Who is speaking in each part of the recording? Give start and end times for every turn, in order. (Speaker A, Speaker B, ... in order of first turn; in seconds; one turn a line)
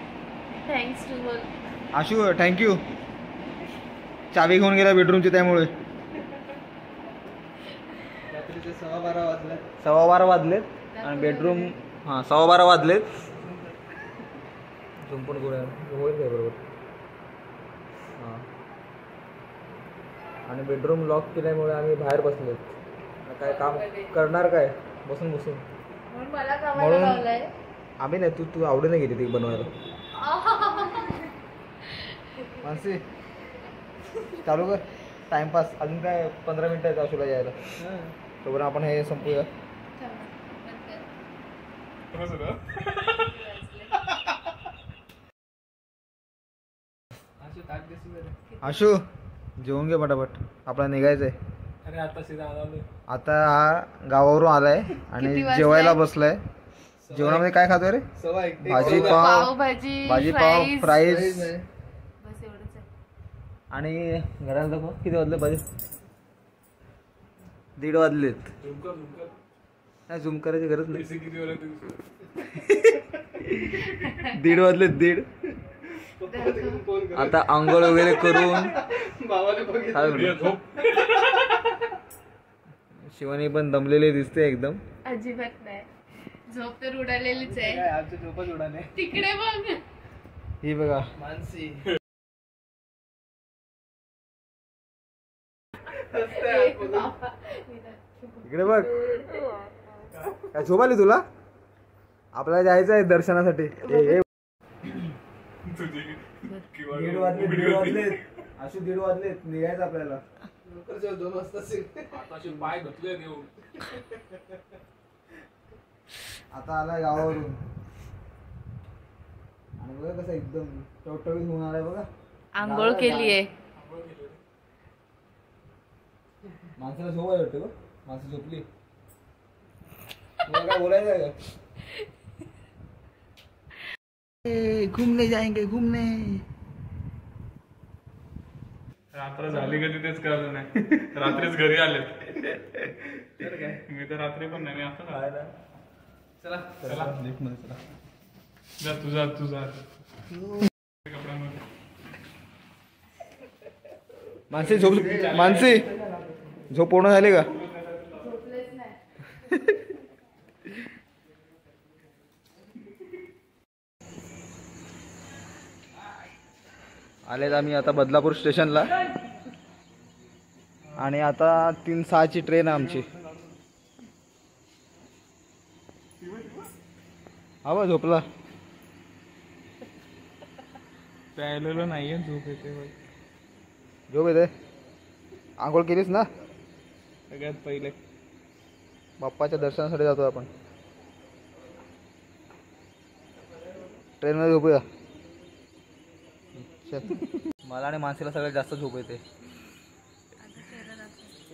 Speaker A: 0.7-1.5
Speaker B: 1.9-2.8
Speaker B: 4.3-5.7
Speaker C: 8.3-9.6
Speaker B: 9.8-13.1
Speaker A: 10.9-11.8
Speaker B: 15.0-16.6
Speaker B: 18.2-18.5
Speaker B: 20.5-22.7
Speaker B: 23.2-25.6
Speaker A: 23.4-24.1
Speaker A: 26.1-27.5
Speaker B: 26.7-27.3
Speaker B: 28.0-29.7
Speaker A: 30.1-31.3
Speaker B: 32.6-33.0
Speaker B: 34.4-37.6
Speaker C: 37.8-38.1
Speaker B: 38.4-39.5
Speaker A: 40.0-41.1
Speaker D: 42.1-43.3
Speaker A: 43.2-44.0
Speaker C: 47.4-48.3
Speaker B: 48.6-49.0
Speaker A: 48.6-48.9
Speaker B: 49.6-51.4
Speaker C: 51.8-52.8
Speaker B: 53.1-56.4
Speaker A: 55.1-56.1
Speaker C: 57.0-57.5
Speaker B: 57.1-58.1
Speaker C: 58.2-59.5
Speaker B: 58.6-59.5
Speaker A: 59.1-60.9
Speaker B: 60.0-61.5
Speaker C: 60.9-61.6
Speaker A: 62.2-62.9
Speaker B: 63.7-65.6
Speaker B: 67.8-68.4
Speaker D: 68.6-69.3
Speaker B: 70.1-71.1
Speaker D: 70.9-72.0
Speaker B: 72.5-75.3
Speaker A: 73.9-74.3
Speaker C: 76.0-80.7
Speaker A: 76.2-76.9
Speaker B: 77.1-78.8
Speaker B: 79.9-80.5
Speaker D: 80.1-81.5
Speaker B: 83.1-84.8
Speaker A: 85.0-85.9
Speaker A: 86.5-87.9
Speaker C: 87.3-89.1
Speaker A: 89.0-89.8
Speaker B: 90.6-91.1
Speaker C: 91.2-91.9
Speaker C: 95.9-97.1
Speaker A: 96.3-99.7
Speaker B: 98.5-99.1
Speaker B: 100.5-101.2
Speaker B: 102.3-104.2
Speaker D: 105.7-108.2
Speaker B: 106.9-110.2
Speaker C: 110.6-112.3
Speaker D: 112.1-113.6
Speaker B: 116.5-117.6
Speaker B: 119.8-122.1
Speaker A: 122.5-123.5
Speaker B: 122.6-123.4
Speaker D: 123.8-124.4
Speaker B: 126.8-128.6
Speaker B: 130.4-131.3
Speaker B: 134.4-136.4
Speaker D: 139.1-142.5
Speaker C: 143.4-143.8
Speaker D: 143.9-145.2
Speaker B: 145.1-145.5
Speaker C: 146.4-147.0
Speaker B: 146.8-147.8
Speaker D: 148.8-149.8
Speaker B: 150.3-150.7
Speaker D: 151.1-151.6
Speaker B: 154.5-155.9
Speaker D: 154.8-155.8
Speaker B: 156.7-157.5
Speaker A: 158.1-158.9
Speaker B: 167.3-168.9
Speaker B: 170.9-173.1
Speaker B: 177.6-178.2
Speaker D: 181.3-182.9
Speaker B: 184.1-184.5
Speaker B: 185.6-186.3
Speaker D: 187.3-187.9
Speaker B: 189.2-190.5
Speaker B: 194.2-194.8
Speaker B: 196.6-199.2
Speaker A: 200.5-201.3